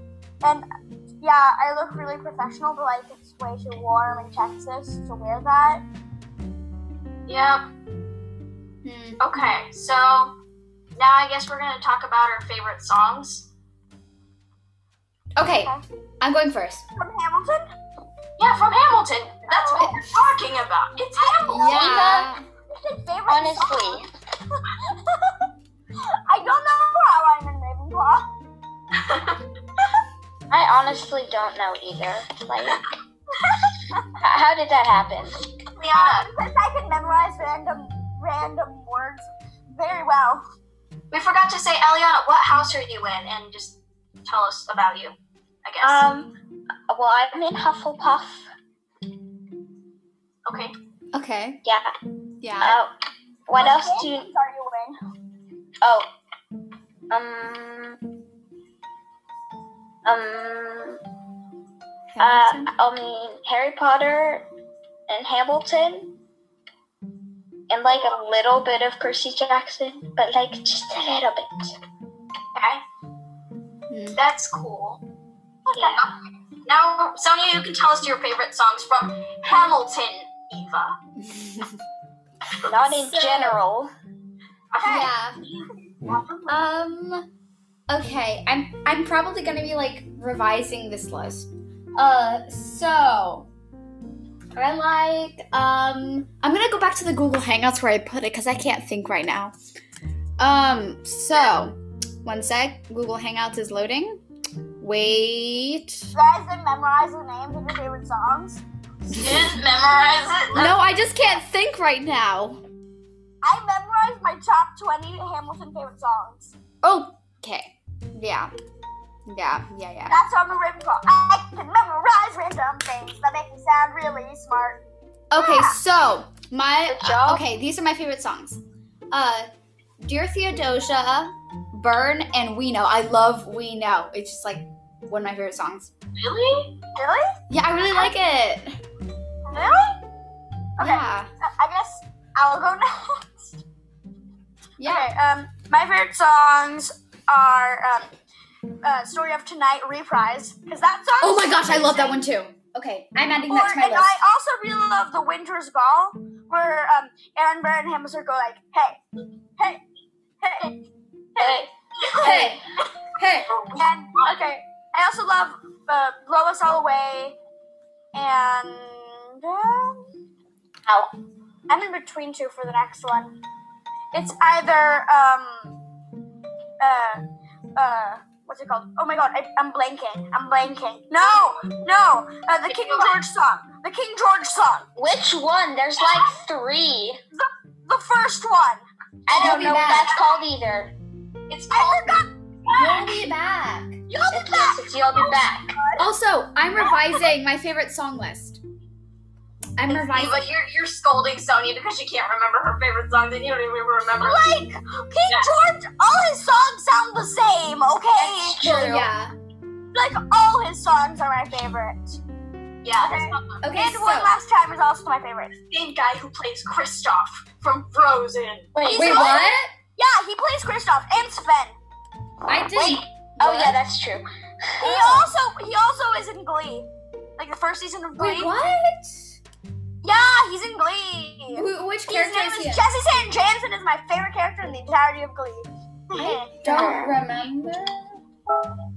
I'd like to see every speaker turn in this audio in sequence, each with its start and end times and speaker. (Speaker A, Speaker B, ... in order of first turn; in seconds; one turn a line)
Speaker A: 1.2-5.8
Speaker B: 7.3-7.7
Speaker C: 8.8-9.2
Speaker B: 9.2-10.3
Speaker B: 10.9-13.5
Speaker C: 15.3-16.9
Speaker A: 16.9-17.7
Speaker B: 18.4-22.1
Speaker A: 19.5-19.9
Speaker A: 21.2-24.1
Speaker C: 21.5-22.4
Speaker D: 21.9-22.2
Speaker D: 23.3-24.1
Speaker A: 24.8-25.4
Speaker A: 26.0-28.3
Speaker B: 29.0-29.4
Speaker D: 30.5-32.8
Speaker D: 34.1-35.4
Speaker B: 35.8-36.3
Speaker A: 35.9-40.4
Speaker B: 41.1-45.1
Speaker B: 45.6-46.0
Speaker D: 45.8-46.3
Speaker D: 46.9-48.5
Speaker B: 50.5-50.7
Speaker C: 51.1-51.6
Speaker D: 51.6-51.9
Speaker C: 52.4-52.8
Speaker D: 52.6-52.9
Speaker D: 53.5-54.3
Speaker A: 53.6-55.0
Speaker D: 55.8-56.1
Speaker D: 57.1-58.0
Speaker D: 60.0-61.0
Speaker C: 62.1-62.7
Speaker D: 62.2-64.4
Speaker D: 65.1-66.1
Speaker D: 67.7-71.7
Speaker B: 72.5-72.8
Speaker C: 73.9-74.2
Speaker B: 74.2-75.0
Speaker B: 75.7-81.0
Speaker D: 75.7-76.1
Speaker C: 81.2-81.8
Speaker D: 82.6-83.9
Speaker C: 82.9-83.6
Speaker B: 84.7-86.6
Speaker C: 84.8-85.4
Speaker C: 86.5-87.2
Speaker C: 87.9-93.5
Speaker C: 94.5-99.5
Speaker C: 100.4-104.2
Speaker C: 104.8-106.1
Speaker A: 106.1-108.6
Speaker C: 109.1-109.5
Speaker B: 109.1-110.7
Speaker C: 110.5-112.6
Speaker A: 113.4-116.5
Speaker C: 116.8-118.5
Speaker C: 119.3-120.2
Speaker A: 120.1-124.8
Speaker C: 125.3-128.6
Speaker D: 126.9-127.4
Speaker C: 129.1-129.5
Speaker C: 130.0-135.9
Speaker B: 136.2-136.7
Speaker A: 136.9-137.3
Speaker C: 137.5-138.8
Speaker A: 139.5-140.0
Speaker A: 140.8-143.6
Speaker C: 140.8-141.3
Speaker C: 144.8-145.1
Speaker A: 144.8-148.1
Speaker A: 148.8-152.2
Speaker C: 151.2-154.1
Speaker A: 153.5-159.0
Speaker A: 160.4-160.8
Speaker A: 161.3-162.6
Speaker D: 161.4-161.7
Speaker C: 162.2-162.6
Speaker C: 163.2-163.5
Speaker B: 163.5-164.4
Speaker A: 163.8-167.3
Speaker A: 168.1-170.0
Speaker A: 171.7-173.3
Speaker A: 174.1-175.7
Speaker A: 176.8-177.2
Speaker A: 177.8-184.9
Speaker B: 181.2-181.6
Speaker B: 182.7-183.2
Speaker D: 184.9-187.2
Speaker A: 187.3-188.8
Speaker D: 189.3-190.9
Speaker C: 189.3-190.1
Speaker A: 189.4-189.8
Speaker B: 191.5-193.2
Speaker A: 191.7-192.3
Speaker C: 192.7-194.0
Speaker A: 194.1-196.1
Speaker D: 194.3-195.7
Speaker C: 196.0-198.6
Speaker C: 199.8-200.5
Speaker B: 199.9-204.6
Speaker A: 204.2-208.6
Speaker D: 208.1-209.1
Speaker C: 208.6-209.3
Speaker A: 209.9-212.2
Speaker B: 212.8-213.6
Speaker A: 213.0-215.5
Speaker C: 213.6-214.3
Speaker B: 215.7-219.4
Speaker D: 218.7-219.4
Speaker C: 218.9-219.7
Speaker A: 219.1-219.3
Speaker A: 219.9-221.8
Speaker C: 222.5-223.8
Speaker D: 222.7-225.3
Speaker A: 224.8-226.9
Speaker A: 227.4-228.5
Speaker C: 228.2-229.4
Speaker A: 230.0-236.6
Speaker C: 231.5-232.8
Speaker C: 236.1-238.2
Speaker D: 236.6-237.2